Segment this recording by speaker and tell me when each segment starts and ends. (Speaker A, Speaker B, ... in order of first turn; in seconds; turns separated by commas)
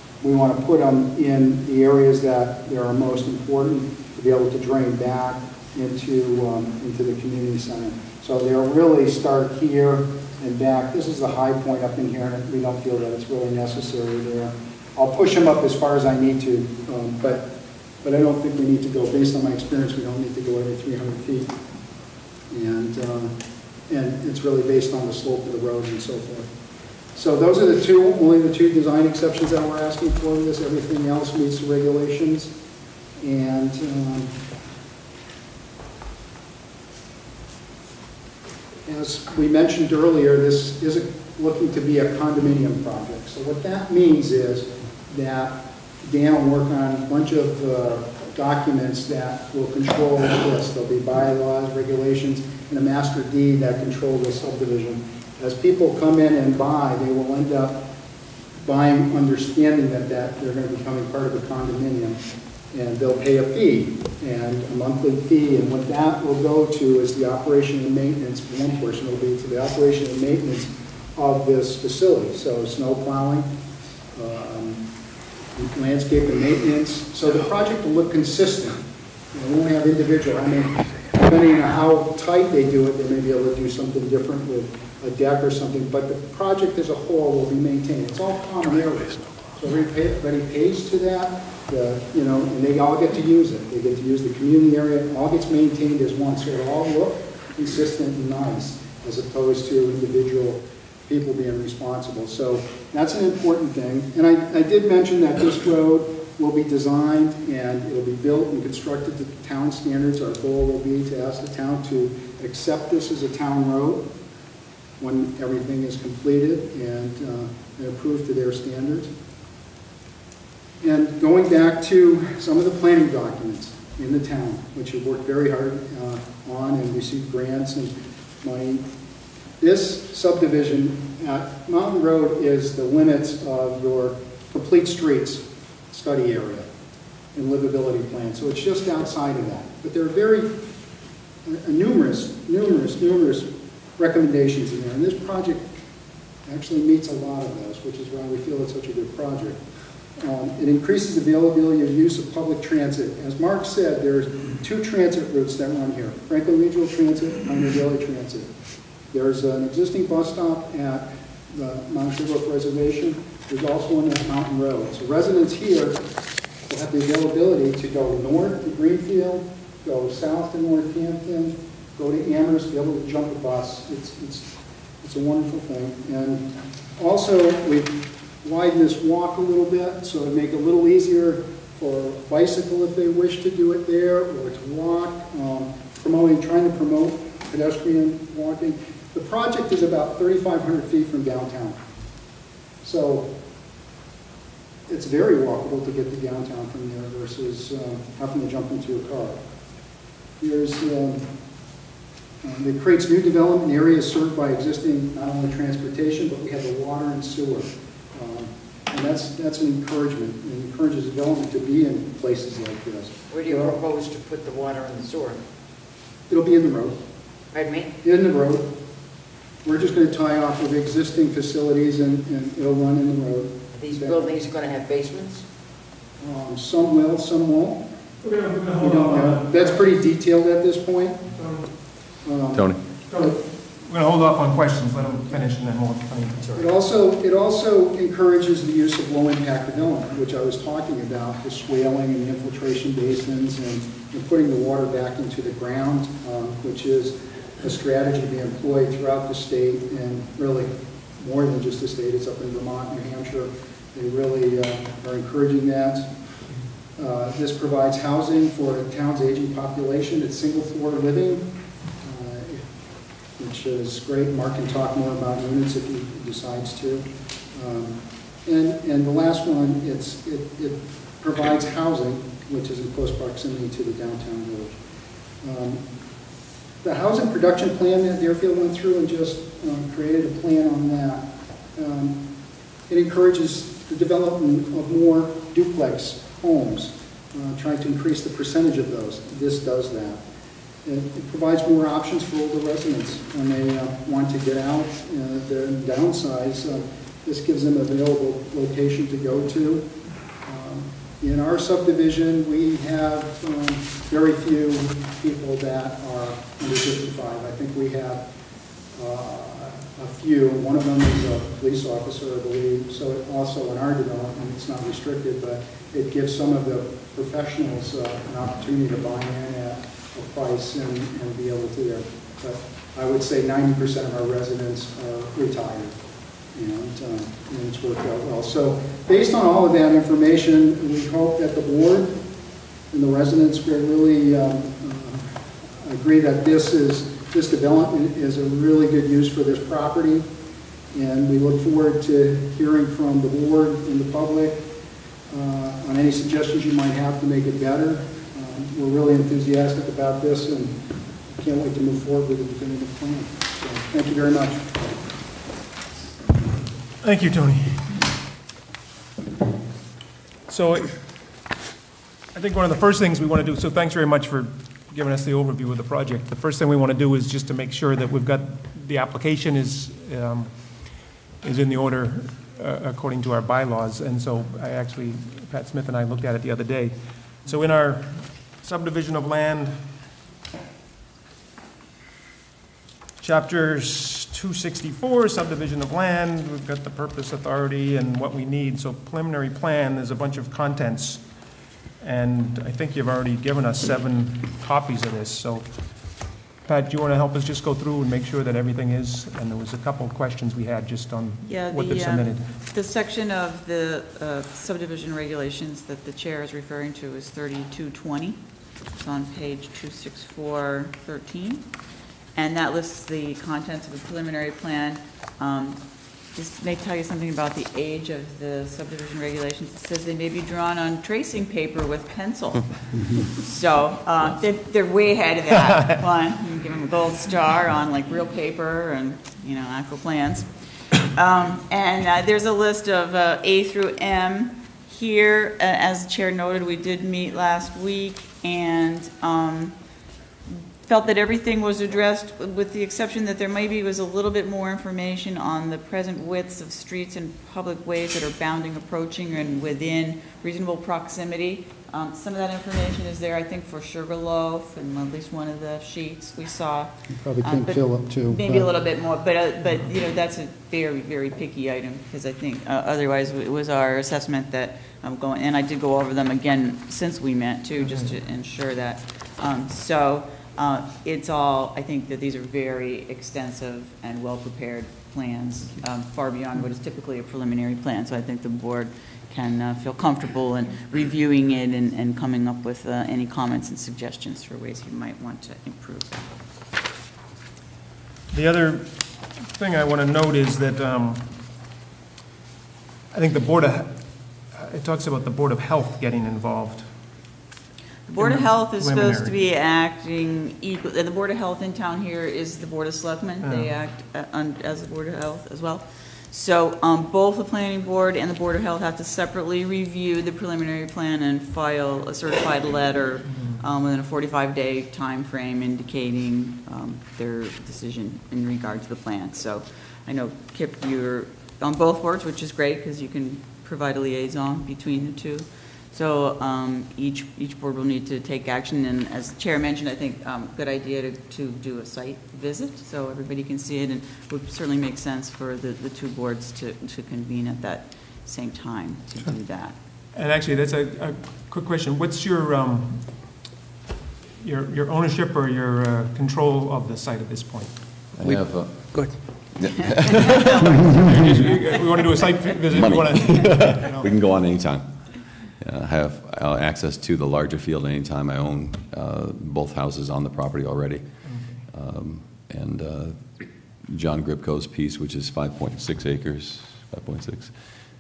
Speaker A: 0.2-21.5, Speaker A: 22.5-23.4, Speaker A: 23.9-26.5, Speaker A: 27.1-32.5, Speaker A: 33.2-34.4, Speaker A: 38.9-57.8, Speaker A: 58.6-62.2, Speaker A: 62.7-73.5, Speaker A: 74.1-74.8, Speaker A: 75.5-114.1, Speaker A: 115.0-119.1, Speaker A: 120.8-128.9, Speaker A: 129.6-136.7, Speaker A: 137.3-140.6, Speaker A: 141.4-145.8, Speaker A: 146.4-149.6, Speaker A: 150.2-158.5, Speaker A: 159.1-166.0, Speaker A: 166.7-191.8, Speaker A: 192.8-193.3, Speaker A: 194.9-199.4, Speaker A: 200.4-201.3, Speaker A: 202.4-213.8, Speaker B: 213.3-215.4, Speaker A: 216.3-217.0, Speaker B: 217.5-217.9, Speaker A: 218.0-218.7, Speaker A: 219.6-224.2, Speaker B: 223.8-225.4, Speaker A: 226.2-227.8, Speaker C: 228.2-229.9, Speaker A: 228.8-231.2, Speaker C: 231.3-231.7, Speaker A: 232.2-232.7, Speaker D: 232.5-232.8, Speaker C: 233.1-236.6, Speaker A: 236.5-256.1, Speaker A: 257.0-261.5, Speaker A: 262.0-262.7, Speaker A: 263.4-274.8, Speaker A: 275.4-275.8, Speaker A: 276.8-282.2, Speaker A: 282.9-290.2, Speaker A: 290.8-299.9, Speaker A: 300.4-308.2, Speaker A: 308.9-326.0, Speaker A: 326.5-332.2, Speaker A: 332.9-340.3, Speaker A: 340.9-344.7, Speaker A: 345.3-350.8, Speaker A: 351.3-354.8, Speaker C: 357.0-358.0, Speaker C: 360.5-361.0, Speaker C: 362.3-370.6, Speaker C: 371.4-379.8, Speaker C: 383.2-391.2, Speaker C: 392.0-395.7, Speaker C: 396.6-402.5, Speaker E: 401.4-408.4, Speaker E: 408.9-411.6, Speaker E: 412.3-415.8, Speaker E: 416.3-439.7, Speaker E: 440.5-486.2, Speaker A: 457.1-458.7, Speaker C: 467.8-468.1, Speaker C: 488.3-491.4, Speaker C: 493.1-496.9, Speaker E: 498.1-539.8, Speaker C: 498.2-499.4, Speaker C: 503.4-503.7, Speaker C: 513.3-513.6, Speaker C: 540.1-543.3, Speaker C: 544.4-547.8, Speaker D: 548.2-551.3, Speaker E: 549.8-551.6, Speaker C: 550.9-554.1, Speaker D: 552.7-561.1, Speaker C: 561.2-561.6, Speaker D: 561.7-567.5